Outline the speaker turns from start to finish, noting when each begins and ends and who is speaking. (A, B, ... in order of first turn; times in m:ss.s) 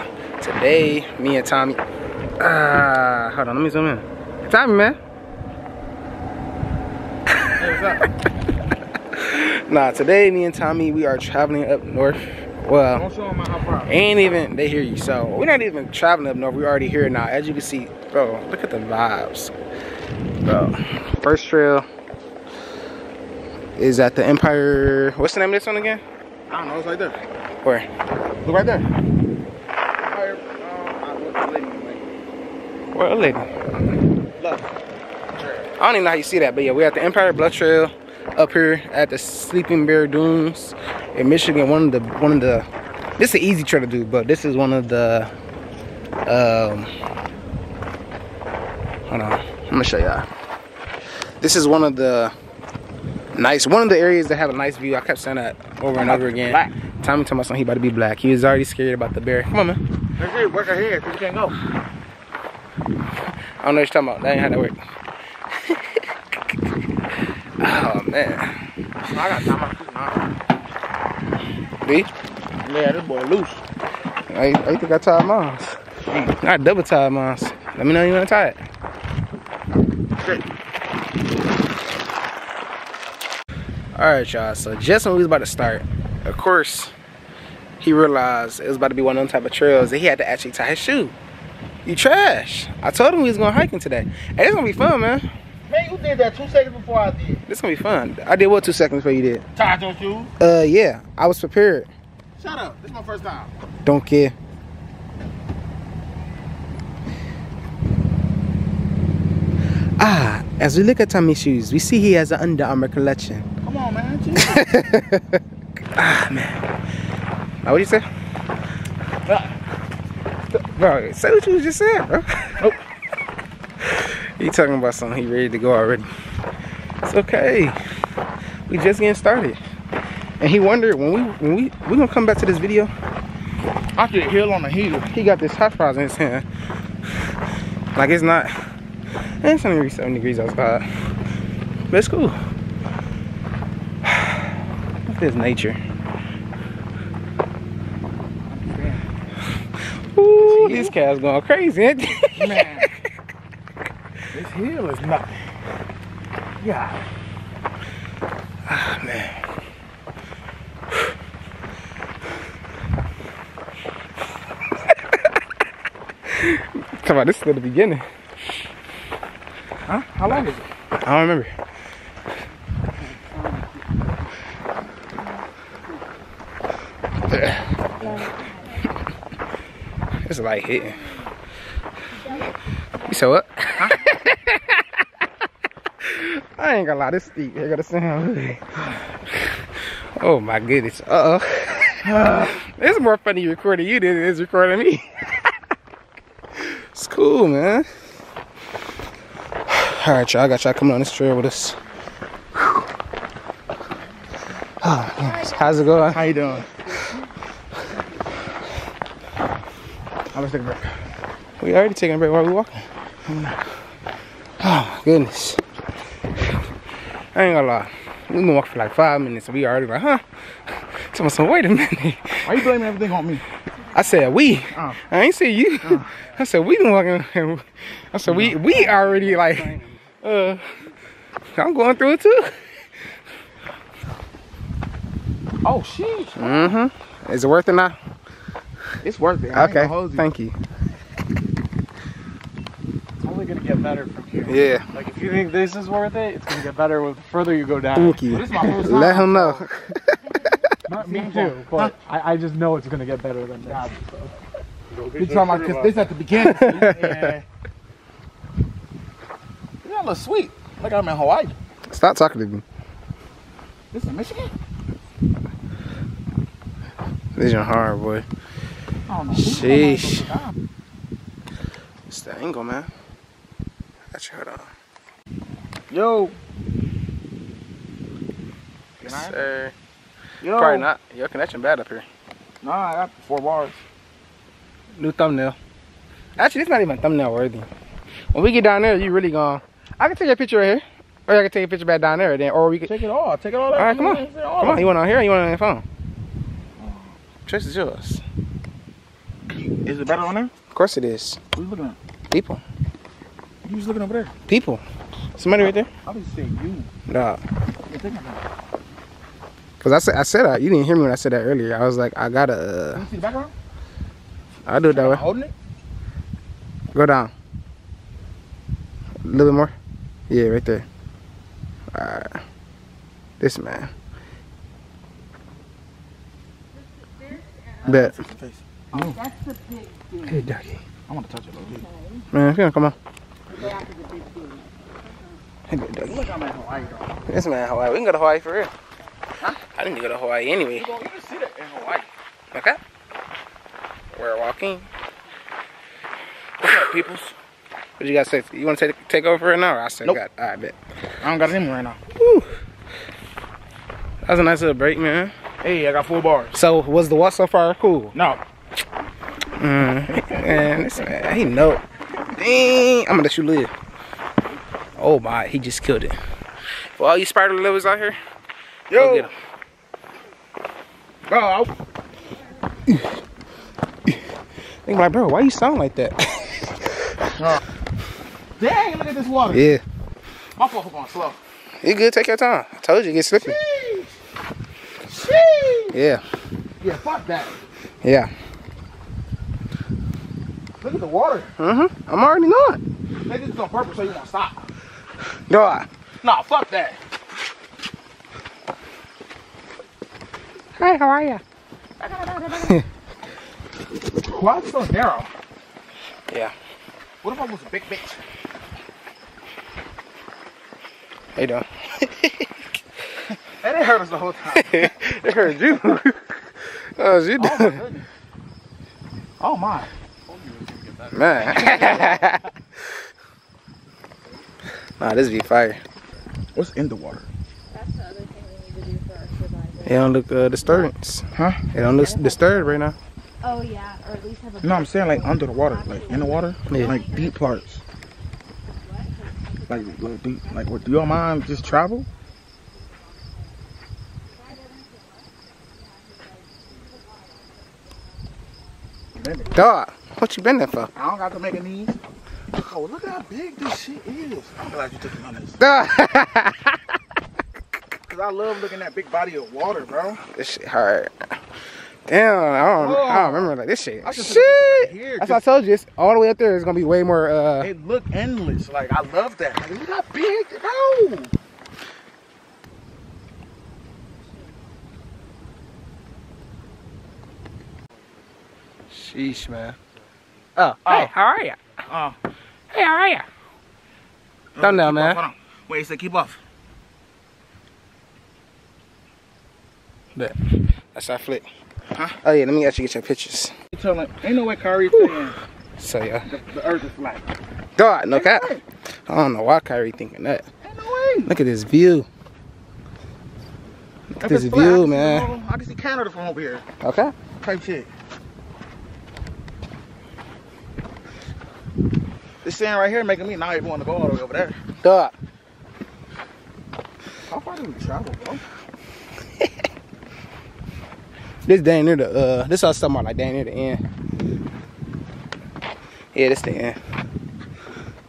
0:00.4-0:01.8 A
0:02.4-0:05.0 A
0:07.6-0:08.1 B
0:09.2-0:13.0 A
0:12.9-0:14.0 B
0:13.9-0:19.5 A
0:20.4-0:21.9 A
0:23.8-0:26.0 A
0:26.5-0:27.2 B
0:28.4-0:28.9 B
0:30.0-0:32.1 B
0:32.9-0:33.6 A
0:34.4-0:34.8 B
0:35.3-0:35.7 B
0:35.8-0:42.7 A
0:43.2-0:45.3 A
0:46.3-0:46.9 A
0:49.1-0:50.3 A
0:51.4-0:52.3 A
0:53.3-0:59.8 A
0:56.0-0:56.8 B
1:00.2-1:01.6 B
1:03.6-1:04.8 A
1:05.7-1:06.0 A
1:07.6-1:08.6 A
1:09.0-1:10.3 B
1:11.8-1:12.1 A
1:12.6-1:13.6 B
1:14.3-1:15.8 A
1:16.1-1:16.3 B
1:16.4-1:18.6 A
1:20.2-1:20.4 B
1:24.0-1:26.9 A
1:27.8-1:31.1 A
1:31.8-1:35.3 A
1:35.7-1:37.4 B
1:37.5-1:39.4 A
1:39.6-1:40.3 B
1:40.4-1:41.9 A
1:42.4-1:43.5 B
1:43.8-1:44.3 A
1:50.0-1:53.5 A
1:53.6-1:54.8 B
1:54.4-1:55.4 A
1:56.0-1:56.5 A
1:57.6-1:58.1 A
1:59.3-1:59.6 B
2:00.5-2:02.7 A
2:03.9-2:06.1 A
2:07.0-2:07.8 A
2:08.7-2:09.6 A
2:10.4-2:12.9 A
2:14.0-2:15.1 B
2:15.1-2:16.5 A
2:17.9-2:18.5 A
2:19.4-2:20.9 A
2:21.9-2:22.4 A
2:25.1-2:25.8 A
2:28.4-2:29.1 B
2:30.1-2:32.8 A
2:30.4-2:31.0 B
2:32.3-2:32.9 B
2:34.3-2:35.5 B
2:36.6-2:37.0 B
2:38.7-2:39.4 A
2:46.3-2:48.1 A
2:49.9-2:50.7 B
2:51.0-2:51.5 A
2:57.3-2:57.7 A
2:58.0-2:58.3 B
3:00.3-3:01.0 A
3:03.1-3:05.0 A
3:06.1-3:08.9 A
3:10.2-3:15.2 A
3:12.0-3:12.6 B
3:16.6-3:17.9 A
3:19.7-3:21.8 A
3:24.8-3:26.2 A
3:26.1-3:26.8 B
3:30.3-3:30.9 B
3:31.6-3:32.9 A
3:33.3-3:33.6 B
3:34.6-3:35.6 A
3:37.3-3:40.2 A
3:40.9-3:42.5 A
3:42.4-3:43.4 B
3:43.9-3:50.7 A
3:44.7-3:45.0 B
3:48.4-3:49.8 C
3:51.6-3:52.6 A
3:55.6-3:56.8 B
3:56.4-3:58.0 A
3:59.0-4:00.3 B
3:59.5-4:00.6 A
4:03.2-4:08.3 C
4:04.5-4:04.8 A
4:08.0-4:10.8 A
4:08.3-4:09.6 B
4:10.9-4:14.0 C
4:11.0-4:12.0 B
4:13.6-4:14.0 B
4:15.0-4:17.5 B
4:15.0-4:15.5 C
4:16.4-4:17.3 A
4:19.8-4:21.6 B
4:21.9-4:22.6 A
4:23.9-4:24.5 B
4:27.4-4:28.2 A
4:29.1-4:30.5 B
4:29.4-4:30.3 A
4:32.1-4:32.9 A
4:34.1-4:34.7 A
4:35.9-4:36.4 B
4:39.0-4:39.4 B
4:39.0-4:39.8 A
4:40.4-4:40.9 B
4:40.6-4:42.1 A
4:42.6-4:43.8 B
4:45.0-4:45.6 A
4:46.4-4:47.7 A
4:48.3-4:52.9 A
4:52.8-4:55.0 B
4:53.8-4:55.8 A
4:56.8-4:57.2 B
4:57.5-4:58.2 A
4:59.5-5:00.5 B
5:00.7-5:01.4 A
5:01.5-5:02.0 B
5:02.3-5:02.6 A
5:03.6-5:04.3 B
5:04.5-5:04.8 A
5:05.4-5:05.9 A
5:06.0-5:06.9 B
5:07.1-5:07.4 A
5:07.9-5:08.4 B
5:09.8-5:13.1 A
5:12.9-5:13.5 B
5:14.7-5:15.2 A
5:14.9-5:15.5 B
5:16.9-5:17.3 A
5:19.2-5:19.7 A
5:20.3-5:20.9 A
5:21.9-5:22.4 A
5:23.4-5:23.9 A
5:27.8-5:28.1 A
5:27.8-5:29.3 B
5:29.0-5:30.2 D
5:30.3-5:30.8 A
5:31.1-5:31.9 B
5:31.8-5:32.2 D
5:32.3-5:33.0 A
5:33.5-5:34.7 D
5:35.7-5:36.2 A
5:36.0-5:37.2 B
5:37.3-5:38.7 A
5:39.7-5:40.9 A
5:40.7-5:42.1 B
5:42.5-5:42.8 A
5:44.1-5:44.9 A
5:46.6-5:47.3 B
5:48.0-5:50.8 A
5:51.2-5:52.0 B
5:52.2-5:52.6 A
5:54.2-5:55.3 A
5:55.6-5:56.6 B
5:56.5-5:58.2 A
5:58.1-5:58.4 B
5:59.6-6:01.8 A
6:00.0-6:01.0 B
6:02.3-6:03.7 A
6:05.0-6:06.2 A
6:06.9-6:08.2 A
6:08.9-6:09.3 B
6:09.0-6:09.3 A
6:11.3-6:11.7 B
6:12.9-6:13.2 A
6:14.9-6:17.3 A
6:17.4-6:17.6 B
6:18.6-6:19.8 B
6:19.5-6:19.8 A
6:20.6-6:21.4 B
6:21.8-6:23.6 A
6:23.4-6:24.1 B
6:25.1-6:26.0 B
6:25.9-6:26.2 A
6:26.8-6:27.6 B
6:28.0-6:28.3 A
6:30.8-6:31.6 B
6:31.6-6:32.8 A
6:33.3-6:34.7 B
6:35.5-6:35.9 A
6:36.2-6:37.0 B
6:40.8-6:41.4 A
6:42.0-6:42.8 B
6:44.2-6:45.3 B
6:47.2-6:48.2 B
6:51.4-6:52.5 A
6:53.6-6:55.0 B
6:54.6-6:57.8 A
6:57.4-6:58.1 B
6:59.4-6:59.9 B
7:00.3-7:01.7 C
7:01.1-7:02.5 A
7:01.6-7:02.0 B
7:05.0-7:05.8 A
7:06.6-7:07.3 B
7:07.8-7:09.8 D
7:09.8-7:13.0 A
7:11.3-7:12.8 B
7:13.5-7:14.7 D
7:14.6-7:17.8 B
7:19.7-7:22.1 B
7:29.2-7:29.5 B
7:29.6-7:30.9 A
7:31.0-7:32.0 B
7:32.5-7:35.6 B
7:35.6-7:36.8 A
7:38.1-7:40.2 B
7:40.3-7:41.1 A
7:42.1-7:47.7 A
7:42.8-7:45.4 B
7:47.6-7:51.3 B
7:58.9-7:59.8 A
8:00.6-8:01.6 A
8:00.8-8:01.1 B
8:01.9-8:02.2 B
8:02.7-8:03.3 A
8:04.6-8:06.4 B
8:04.6-8:05.2 A
8:10.9-8:11.5 A
8:11.9-8:12.2 B
8:12.2-8:13.5 A
8:13.7-8:15.4 B
8:15.8-8:16.3 A
8:16.2-8:17.3 B
8:17.8-8:18.5 A
8:18.1-8:18.6 B
8:19.1-8:20.5 A
8:20.6-8:21.3 B
8:21.3-8:22.1 A
8:24.2-8:25.3 A
8:24.2-8:26.6 B
8:26.8-8:27.1 A
8:27.4-8:27.9 B
8:32.4-8:34.6 B
8:34.8-8:35.1 A
8:37.3-8:38.4 B
8:41.4-8:43.8 A
8:46.1-8:46.8 A